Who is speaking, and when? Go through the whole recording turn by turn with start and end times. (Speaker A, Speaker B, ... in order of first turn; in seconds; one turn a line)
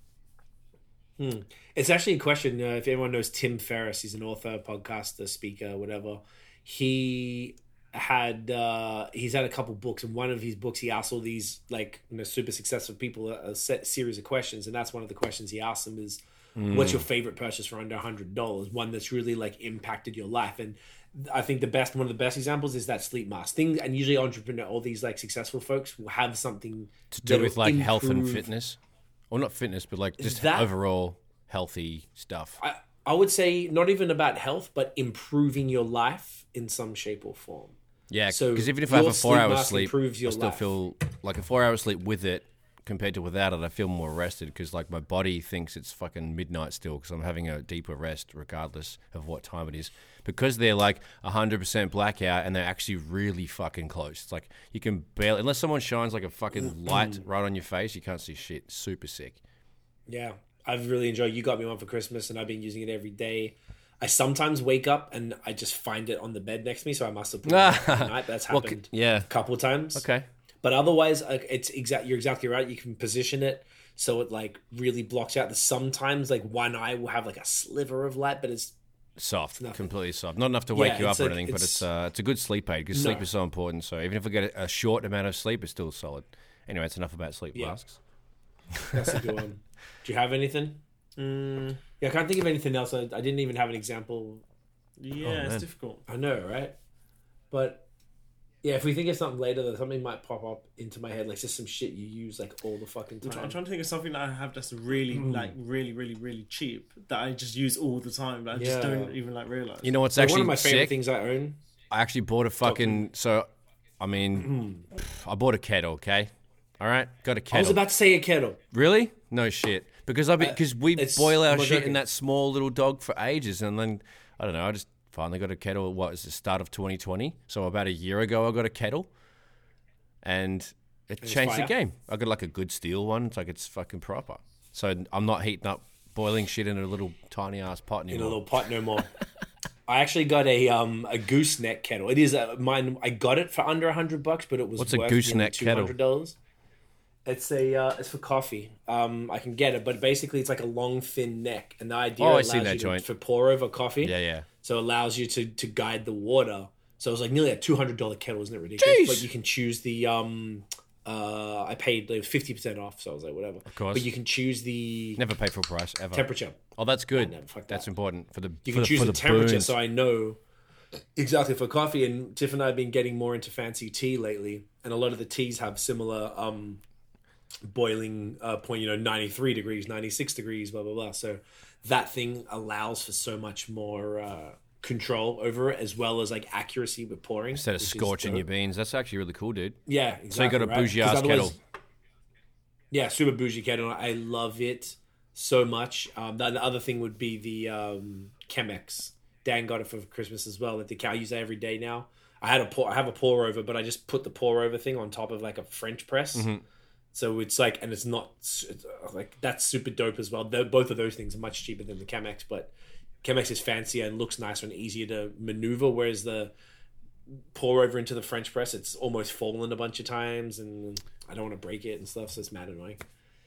Speaker A: 1.2-28.5
Speaker B: 16.6-17.0
Speaker B: 27.1-28.8
Speaker B: 29.3-32.6
Speaker A: 30.2-30.7
Speaker A: 32.6-37.8
Speaker B: 38.1-59.4
Speaker A: 38.3-40.7
Speaker A: 60.1-70.0
Speaker B: 67.5-69.3
Speaker B: 70.0-70.3
Speaker A: 70.6-78.8
Speaker B: 79.2-88.0
Speaker A: 79.5-79.9
Speaker A: 80.7-81.9
Speaker A: 82.9-83.3
Speaker B: 88.8-89.2
Speaker A: 88.9-90.8
Speaker C: 91.2-91.8
Speaker A: 92.0-94.4
Speaker C: 95.0-96.0
Speaker B: 95.2-95.6
Speaker A: 96.1-96.8
Speaker A: 97.5-97.9
Speaker A: 98.6-103.6
Speaker C: 103.2-110.0
Speaker A: 105.1-105.5
Speaker A: 108.5-109.2
Speaker B: 109.8-111.0
Speaker A: 110.1-111.6
Speaker B: 111.9-113.5
Speaker A: 112.6-113.0
Speaker B: 114.0-117.8
Speaker A: 114.4-114.9
Speaker A: 117.5-118.6
Speaker B: 118.7-129.1
Speaker A: 120.4-122.0
Speaker B: 130.2-138.4
Speaker A: 131.2-131.8
Speaker A: 138.1-139.1
Speaker A: 139.9-146.4
Speaker B: 144.8-145.9
Speaker A: 147.3-165.2
Speaker B: 152.2-153.1
Speaker B: 154.0-154.5
Speaker B: 158.8-159.3
Speaker B: 163.7-164.1
Speaker B: 165.2-169.8
Speaker A: 166.1-166.6
Speaker A: 167.1-167.9
Speaker A: 168.6-170.4
Speaker A: 171.2-176.8
Speaker A: 177.6-188.5
Speaker B: 187.5-191.6
Speaker A: 189.9-191.6
Speaker A: 192.9-206.5
Speaker B: 206.3-206.6
Speaker A: 207.1-216.5
Speaker A: 217.5-223.0